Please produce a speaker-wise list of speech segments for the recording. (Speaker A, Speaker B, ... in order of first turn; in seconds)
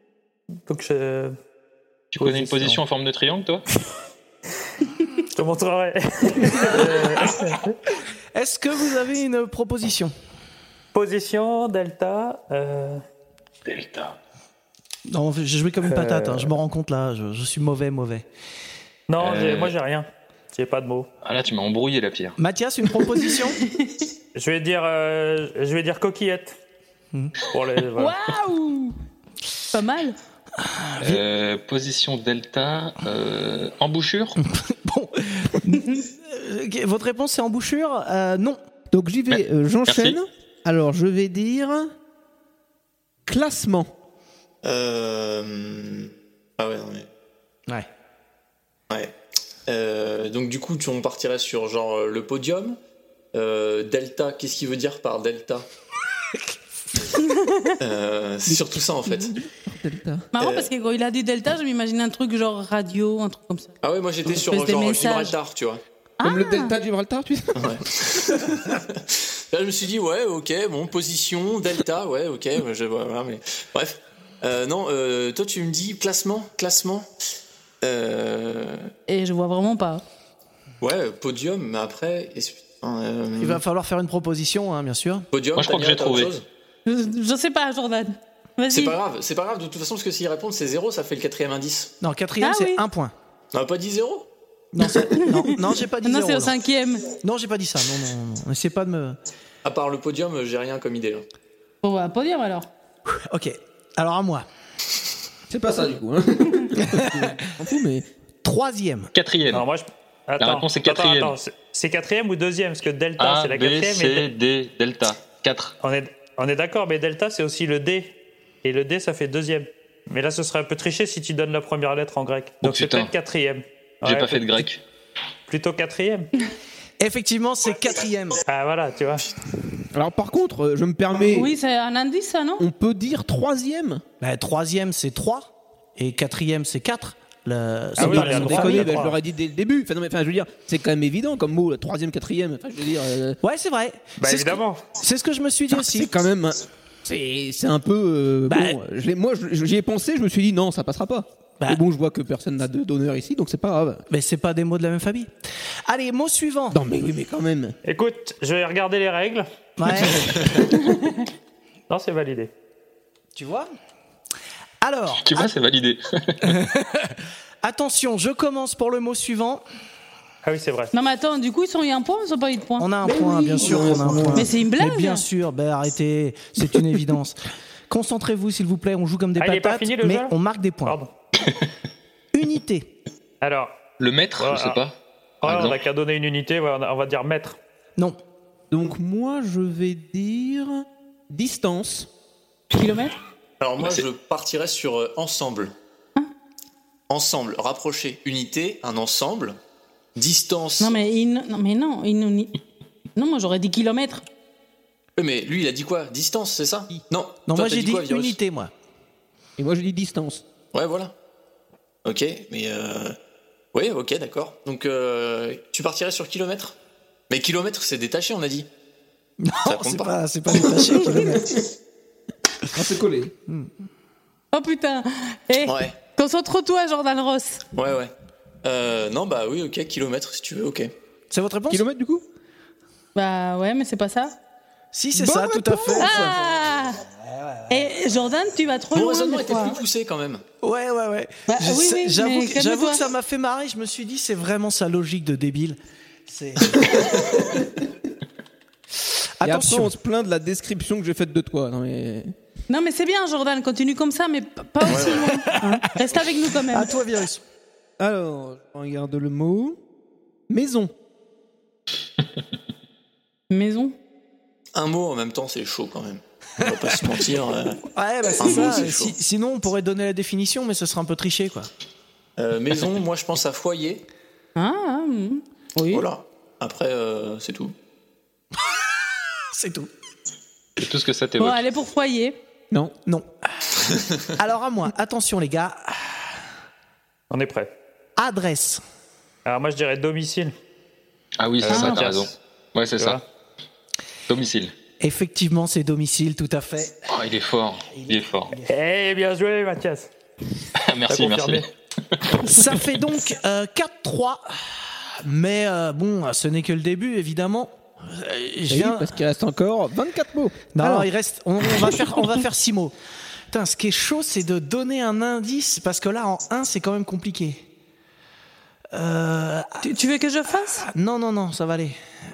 Speaker A: 0.7-1.3, 2.2-2.8, 5.3-7.8, 10.9-13.0, 15.9-16.5, 19.1-21.1, 24.4-26.6, 27.5-28.2, 109.5-114.3, 115.8-118.1, 118.6-124.7, 125.5-126.3, 128.5-129.2, 138.0-139.2, 144.2-144.9, 157.8-159.5, 161.9-162.5, 170.4-170.9, 179.4-181.1, 183.4-184.8, 185.4-187.6, 287.3-287.7, 289.4-290.5, 291.6-292.4, 298.7-300.1, 301.1-301.6
Speaker B: 2.1-3.6, 13.7-14.2, 19.2-19.8, 21.2-22.4, 31.0-34.4, 39.3-40.2, 85.5-86.3, 109.1-109.6, 110.4-111.4, 113.2-115.8, 122.6-123.1, 124.0-124.8, 165.2-166.6, 184.0-185.8, 280.8-281.6, 291.4-293.2, 294.3-294.7, 297.1-298.5, 300.8-302.2
Speaker C: 8.3-10.1, 15.1-18.2, 22.4-23.6, 30.6-31.2, 34.4-38.6, 83.4-85.2, 92.0-93.1, 94.7-96.6, 97.2-99.2, 103.1-104.5, 106.8-107.3, 108.4-109.1, 127.0-128.4, 134.2-139.1, 143.4-146.1, 148.5-148.8, 154.1-155.3, 155.9-156.8, 159.8-160.6, 163.4-163.7, 164.8-165.5, 166.6-169.6, 172.8-177.4, 177.9-180.9, 182.3-182.9, 207.5-208.7, 219.4-221.6, 231.3-231.8, 234.9-236.3, 237.2-237.9, 240.6-247.6, 249.4-249.9, 256.7-257.4, 267.9-271.7, 279.5-279.9, 282.7-286.3, 288.2-288.8, 295.0-297.0, 297.9-298.7, 302.4-309.1, 310.7-312.9, 313.5-317.6, 318.9-319.9, 320.9-322.0
Speaker D: 28.0-28.9, 29.7-30.1, 57.2-57.7, 60.4-63.8, 64.3-65.3, 66.2-66.8, 79.1-80.0, 86.9-89.0, 92.4-92.8, 94.9-97.1, 101.8-102.7, 131.3-132.6, 170.9-175.2, 192.7-193.2, 200.8-202.5, 203.2-204.2, 224.5-227.6, 233.1-234.4, 235.9-237.0, 237.7-239.8, 241.5-243.0, 252.7-256.9, 263.5-263.9, 274.6-276.1, 281.4-282.4, 291.7-292.0, 319.8-320.9
Speaker E: 38.9-41.9, 43.2-43.9, 58.5-60.3, 66.2-68.5, 105.5-108.0, 129.9-131.5, 132.6-134.0, 138.0-143.4, 145.7-154.1, 156.7-157.8, 173.6-174.5, 188.7-192.1, 209.6-210.4, 222.7-223.3, 231.7-232.2, 235.1-236.3, 249.4-252.3, 258.0-259.8, 260.5-260.9, 308.7-311.1
Speaker F: 44.6-47.1, 49.7-52.8, 53.3-55.6, 57.8-59.3, 60.4-60.7, 63.8-65.8, 67.5-77.1, 77.8-78.9, 80.8-83.6, 85.3-86.4, 88.7-91.9, 93.5-94.2, 99.6-101.2, 193.6-195.7, 197.1-199.6, 200.2-200.9, 205.2-208.4, 210.7-211.1, 212.1-213.2, 213.7-216.7, 217.3-218.7, 219.7-221.2, 225.6-225.9, 227.7-228.1, 228.6-230.9, 238.9-240.4, 254.9-255.3, 264.7-267.8, 268.4-269.1, 272.4-274.0, 275.9-277.7